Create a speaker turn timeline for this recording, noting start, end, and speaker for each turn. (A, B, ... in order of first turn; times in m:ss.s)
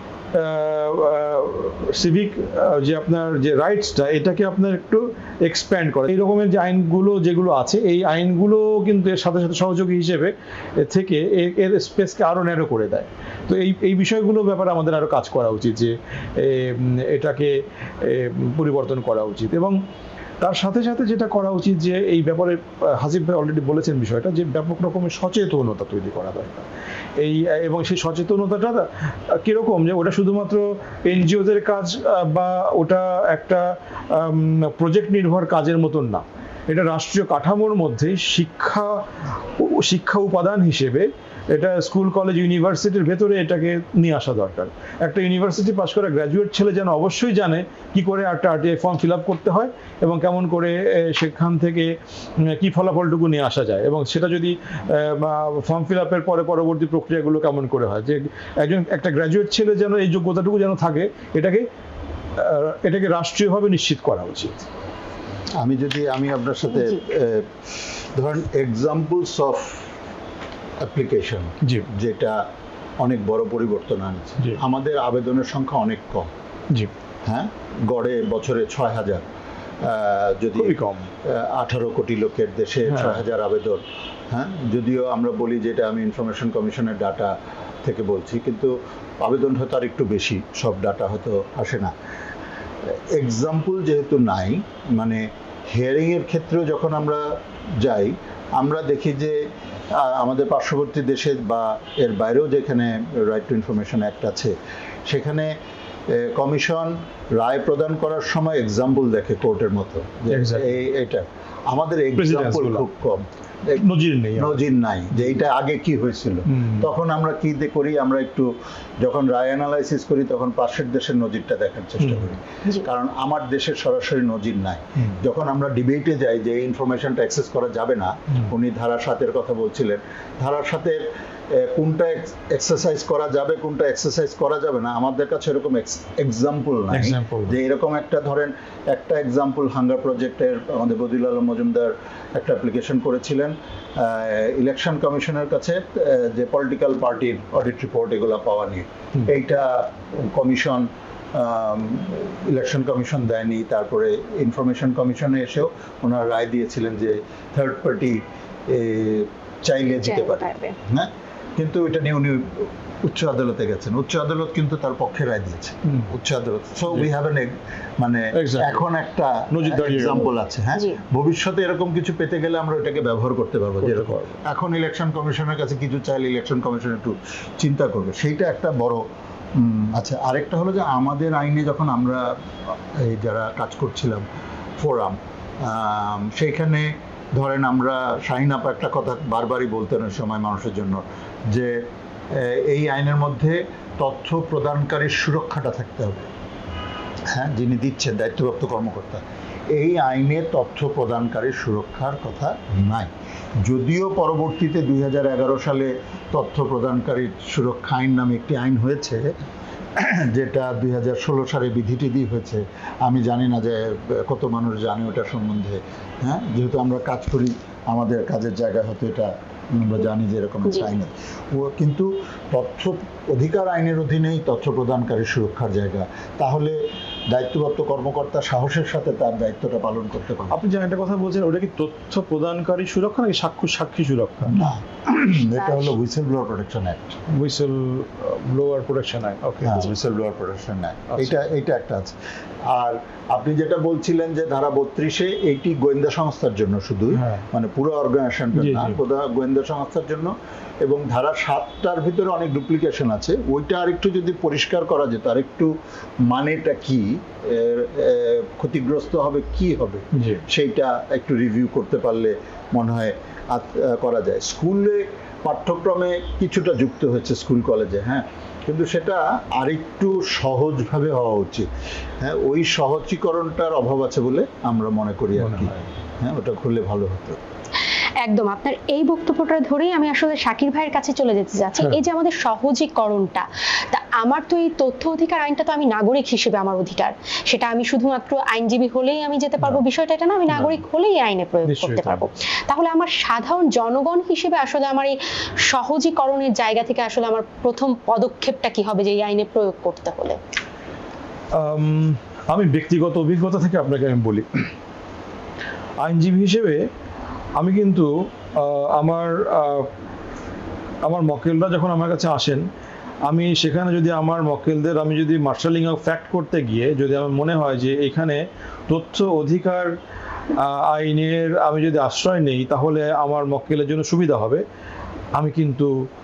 0:00.3-0:19.8 A
0:20.4-0:26.6 A
0:27.2-1:01.7 A
1:02.4-1:04.7 A
1:05.6-1:09.9 B
1:10.8-1:12.4 B
1:13.0-1:16.3 B
1:17.2-1:19.2 B
1:19.8-1:31.9 B
1:20.6-1:21.1 A
1:22.9-1:23.2 A
1:32.8-1:39.4 B
1:39.9-1:44.5 B
1:45.1-1:45.5 B
1:46.1-1:53.8 B
1:50.3-1:50.7 A
1:52.2-1:52.9 A
1:53.8-1:54.6 A
1:54.4-1:58.5 B
1:56.5-1:56.8 A
1:59.0-3:04.2 B
2:16.9-2:17.6 A
2:40.0-2:40.8 C
2:48.3-2:48.9 A
2:49.5-2:50.3 A
2:53.8-2:54.3 A
3:04.8-3:16.3 B
3:17.3-3:29.3 B
3:30.0-3:46.8 B
3:47.3-3:50.6 B
3:50.5-3:54.6 A
3:54.5-3:57.2 B
3:55.6-3:55.9 C
3:57.3-3:59.9 A
3:59.6-4:31.7 B
4:07.1-4:07.4 A
4:08.6-4:09.0 A
4:20.1-4:20.4 A
4:32.2-4:37.4 B
4:35.4-4:35.8 A
4:38.2-5:00.4 C
4:51.6-4:52.2 A
5:01.5-5:04.5 A
5:06.0-5:06.8 A
5:07.6-5:09.9 A
5:11.0-5:12.6 A
5:13.3-5:19.9 A
5:20.5-5:24.6 A
5:25.4-5:25.9 A